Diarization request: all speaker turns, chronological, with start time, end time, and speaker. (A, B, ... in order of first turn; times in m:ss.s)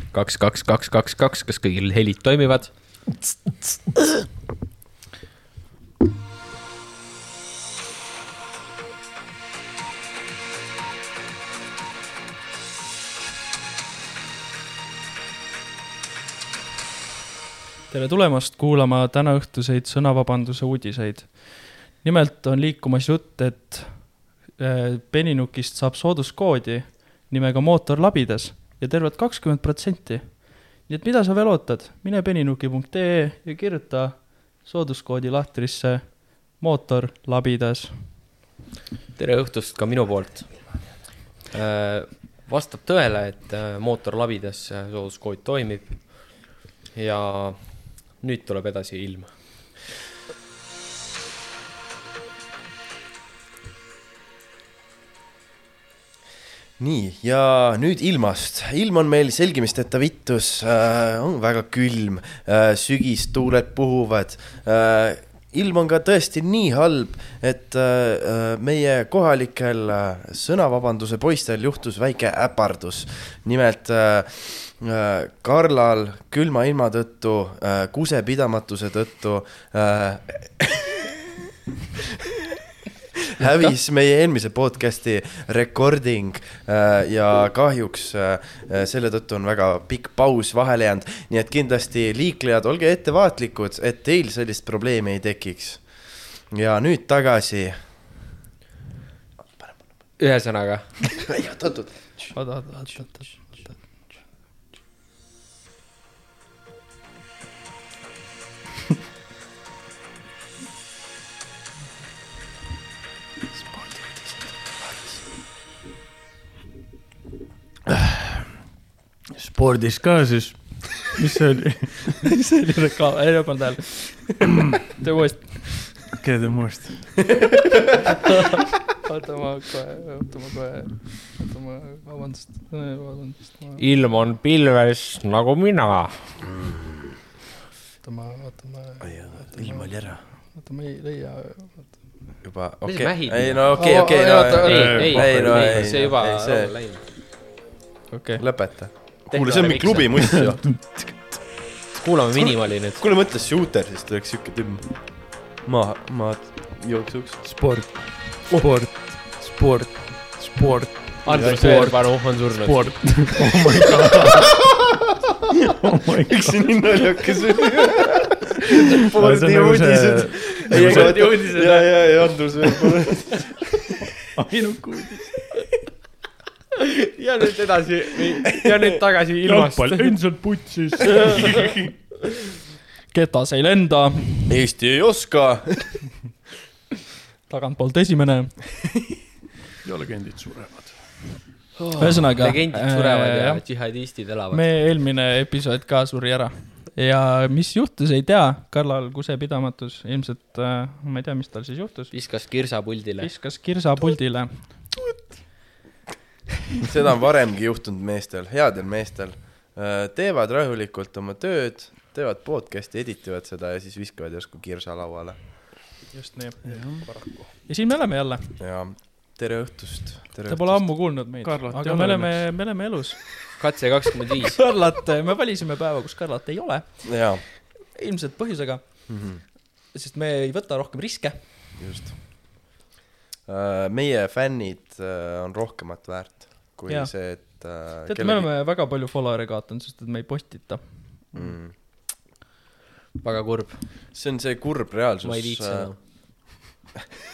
0:00.1-0:03.0 A
0:17.9-0:38.2 B
0:39.2-0:41.0 A
0:41.5-0:49.4 A
0:56.8-1:21.2 C
1:23.4-1:38.3 C
1:39.5-1:39.9 C
1:40.2-1:40.9 A
1:41.2-1:42.8 C
1:42.3-1:44.3 B
1:53.5-1:54.4 B
1:59.4-2:02.2 D
2:02.2-2:06.1 B
2:06.2-2:07.2 D
2:08.3-2:13.9 B
2:13.8-2:16.2 A
2:18.0-2:22.2 B
2:19.0-2:20.2 C
2:22.4-2:26.7 C
2:22.8-2:23.7 A
2:23.7-2:25.1 B
2:24.6-2:27.1 A
2:24.7-2:26.0 D
2:28.1-2:28.4 B
2:28.4-2:31.5 C
2:29.3-2:30.4 A
2:31.9-2:33.0 A
2:33.0-2:37.6 C
2:37.4-2:44.7 D
2:41.2-2:43.3 A
2:45.6-2:47.0 D
2:46.3-2:53.6 C
2:49.2-2:51.6 D
2:50.6-2:52.3 A
2:54.2-2:55.6 D
2:56.9-3:00.2 A
2:59.4-3:01.9 D
3:03.1-3:04.6 B
3:04.5-3:06.0 C
3:07.5-3:08.6 B
3:09.8-3:11.3 D
3:11.8-3:12.4 C
3:12.0-3:13.7 B
3:12.4-3:14.8 A
3:14.5-3:22.2 B
3:22.1-3:23.4 A
3:23.2-3:24.9 B
3:26.8-3:35.9 C
3:36.1-3:38.5 B
3:36.6-3:37.1 D
3:38.6-3:41.2 C
3:40.5-3:43.2 B
3:41.4-3:42.5 D
3:43.6-3:44.6 A
3:44.5-3:49.4 B
3:47.0-3:47.4 C
3:49.1-3:49.4 C
3:49.9-3:51.4 B
3:51.8-3:52.5 C
3:53.5-3:58.5 C
3:56.9-4:01.2 B
4:01.3-4:01.8 C
4:03.2-4:03.9 A
4:04.1-4:06.5 C
4:05.2-4:06.0 A